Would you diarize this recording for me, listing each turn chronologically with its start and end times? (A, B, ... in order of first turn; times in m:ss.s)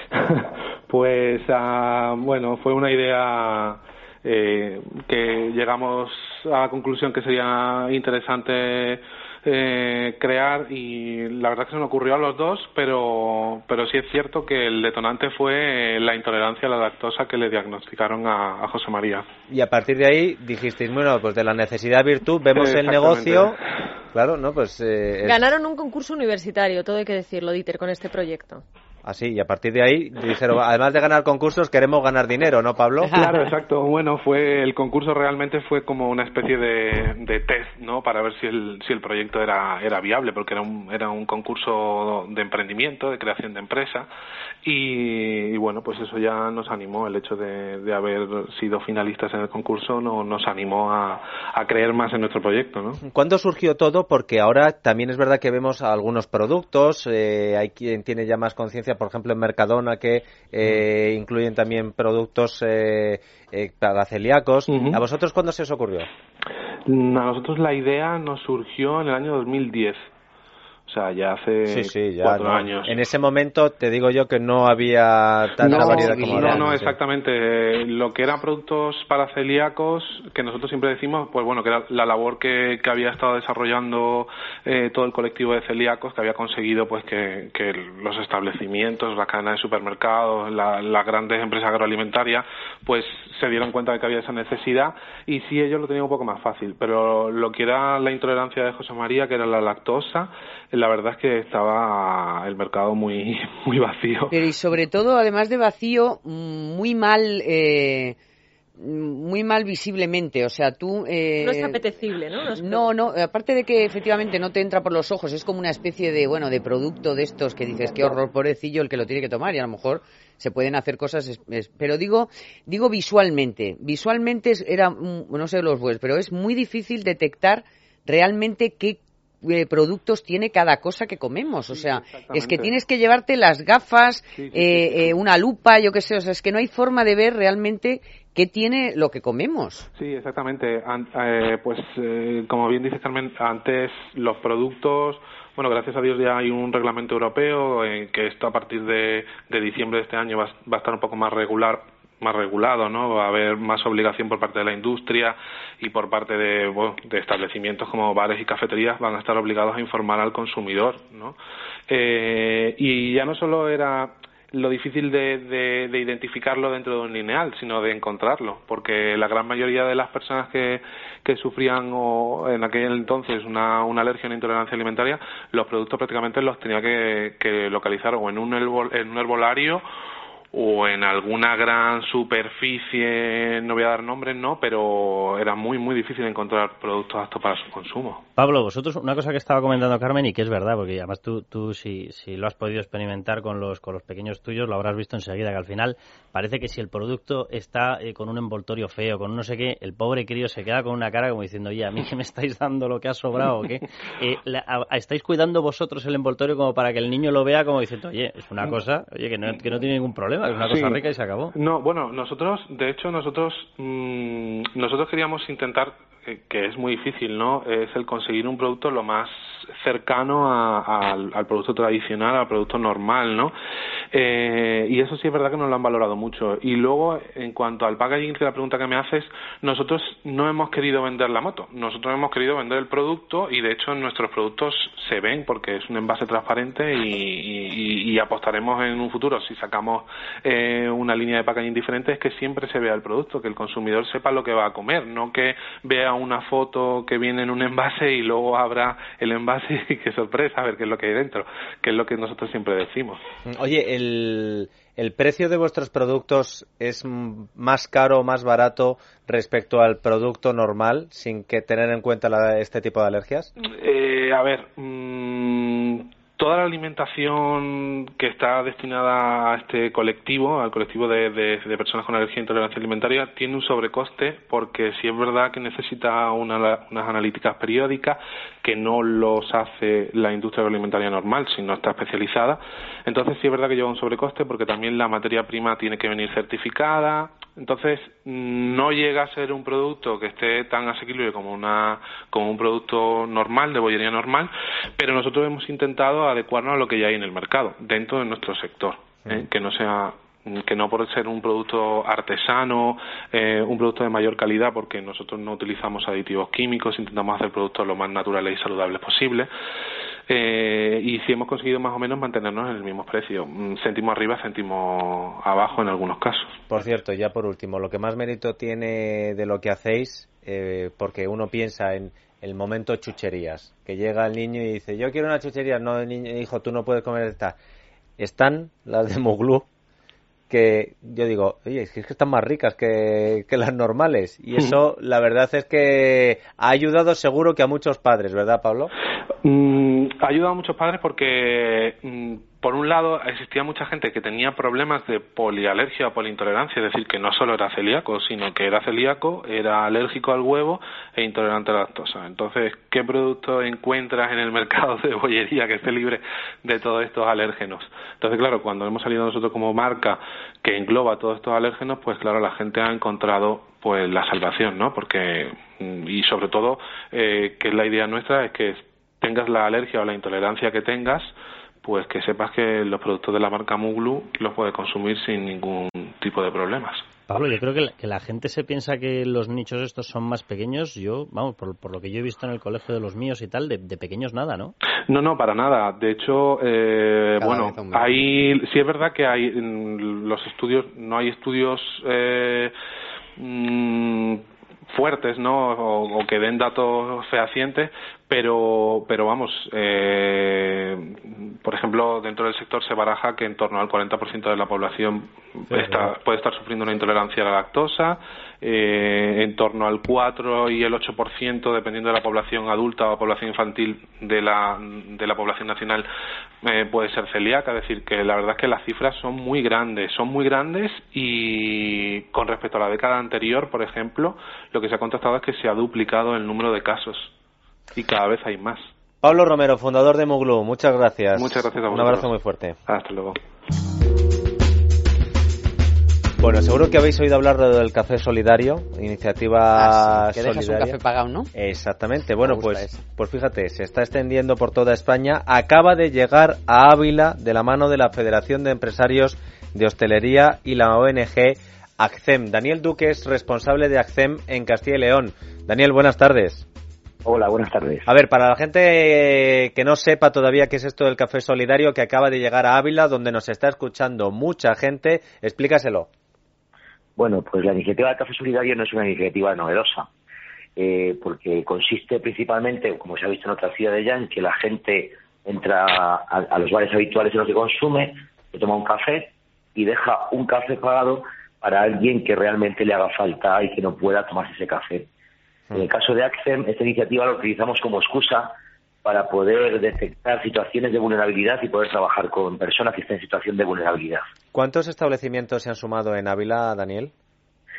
0:00.1-0:19.2 A
0:19.5-0:23.6 B
0:22.5-0:23.6 A
0:24.1-0:25.5 B
0:25.2-0:28.6 C
0:29.0-0:33.2 B
0:33.0-0:33.5 D
0:33.1-0:44.1 A
0:44.6-0:53.0 A
0:53.0-1:06.1 B
1:04.7-1:05.0 A
1:06.8-1:10.0 A
1:10.9-1:13.0 A
1:11.7-1:16.9 B
1:15.6-1:16.7 D
1:15.6-1:44.4 A
1:44.3-1:48.2 D
1:48.8-1:51.8 D
1:51.4-1:52.9 C
1:52.5-2:19.9 D
2:11.7-2:12.7 A
2:14.4-2:15.0 A
2:20.0-2:41.4 A
2:41.9-2:59.8 A
3:00.5-3:08.2 A
3:08.4-3:31.5 E
3:30.5-3:31.0 A
3:31.5-3:43.5 A
3:44.1-4:13.2 A
4:13.4-4:23.5 B
4:23.6-5:09.5 A
5:10.3-5:16.5 A
5:16.7-5:27.6 B
5:28.2-5:29.7 B
5:30.5-5:38.9 B
5:39.4-6:17.0 A
6:17.3-6:24.7 E
6:25.1-6:32.7 A
6:27.4-6:28.1 D
6:33.4-6:56.1 A
6:45.7-6:46.1 B
6:56.6-7:07.3 A
7:07.9-7:08.9 A
7:09.2-7:12.8 B
7:11.3-7:12.3 A
7:12.9-7:13.4 A
7:16.4-7:21.0 B
7:19.8-7:21.5 D
7:21.5-7:36.7 B
7:22.4-7:23.0 D
7:37.2-7:38.1 F
7:38.0-7:46.1 B
7:47.2-7:50.1 F
7:50.8-8:05.1 F
8:05.7-8:14.3 F
8:14.5-8:17.1 B